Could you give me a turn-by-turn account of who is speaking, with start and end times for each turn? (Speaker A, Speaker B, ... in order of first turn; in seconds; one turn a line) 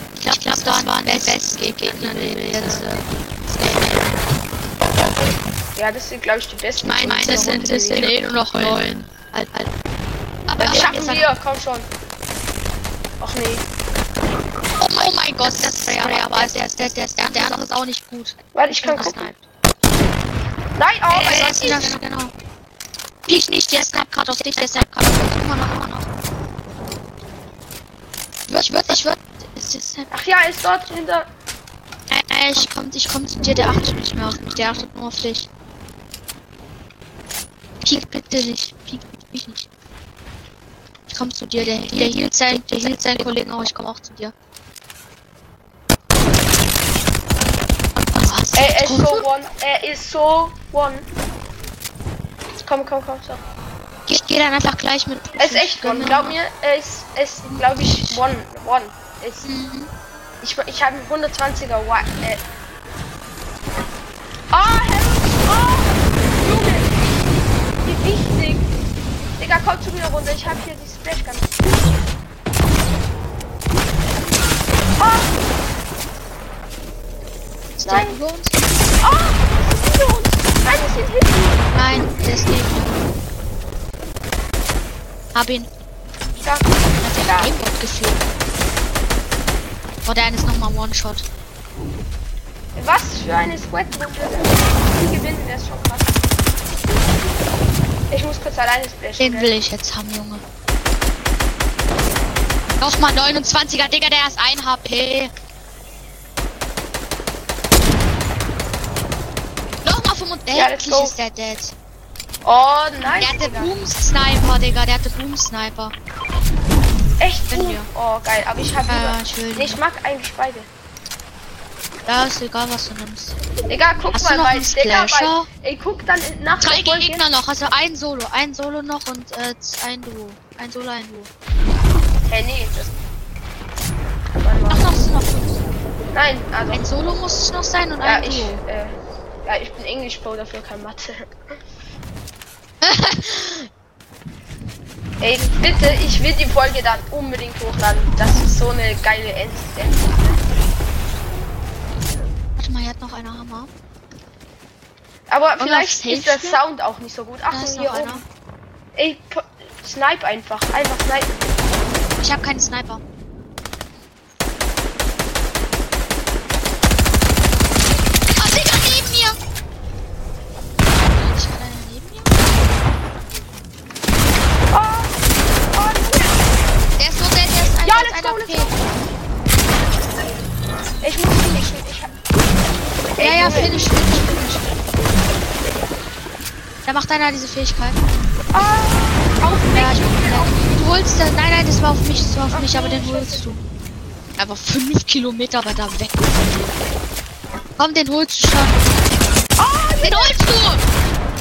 Speaker A: 0.2-4.2
Speaker B: 5.8-8.2
Speaker A: 6.8-9.7
Speaker A: 10.5-11.3
Speaker B: 10.6-11.9
Speaker B: 13.2-13.7
Speaker A: 14.8-19.4
Speaker B: 18.5-19.2
Speaker B: 20.8-21.9
Speaker A: 21.1-22.3
Speaker A: 23.2-26.1
Speaker A: 28.5-30.1
Speaker B: 30.1-31.3
Speaker A: 32.1-35.5
Speaker A: 37.8-39.7
Speaker A: 41.1-44.3
Speaker A: 48.0-49.2
Speaker B: 48.5-51.1
Speaker B: 52.6-53.4
Speaker A: 54.1-56.4
Speaker B: 55.4-59.5
Speaker A: 57.5-58.2
Speaker A: 59.4-59.9
Speaker B: 60.4-62.4
Speaker B: 64.5-67.0
Speaker B: 67.8-68.7
Speaker B: 69.4-71.5
Speaker B: 75.0-75.4
Speaker A: 77.8-78.8
Speaker B: 77.8-78.2
Speaker B: 79.0-82.1
Speaker A: 81.7-83.1
Speaker A: 85.3-85.7
Speaker B: 86.4-87.5
Speaker A: 87.0-88.2
Speaker A: 90.0-91.2
Speaker B: 92.8-96.2
Speaker B: 98.1-99.5
Speaker A: 99.2-100.4
Speaker A: 102.8-105.3
Speaker A: 109.8-111.7
Speaker B: 110.5-111.1
Speaker B: 112.4-113.8
Speaker A: 113.0-115.9
Speaker B: 117.2-120.7
Speaker A: 117.5-117.9
Speaker A: 118.9-119.8
Speaker A: 122.1-123.3
Speaker B: 123.7-127.2
Speaker A: 124.1-125.5
Speaker A: 126.6-131.3
Speaker B: 132.2-132.9
Speaker B: 134.4-135.1
Speaker A: 134.7-135.7
Speaker B: 136.1-137.5
Speaker A: 136.7-138.6
Speaker B: 138.0-141.3
Speaker A: 142.8-143.7
Speaker B: 145.2-150.4
Speaker A: 152.6-153.7
Speaker B: 155.3-158.2
Speaker A: 155.6-156.6
Speaker A: 157.5-158.2
Speaker B: 158.9-161.7
Speaker A: 162.2-163.0
Speaker A: 168.3-169.4
Speaker A: 171.0-172.7
Speaker B: 174.7-176.5
Speaker A: 177.0-178.7
Speaker B: 177.8-178.9
Speaker B: 181.0-182.2
Speaker B: 183.2-183.8
Speaker A: 183.2-184.8
Speaker A: 186.8-188.0
Speaker B: 188.5-190.8
Speaker A: 189.7-193.6
Speaker B: 192.5-193.5
Speaker A: 194.4-196.4
Speaker A: 197.8-199.2
Speaker B: 199.6-200.3
Speaker A: 200.0-200.8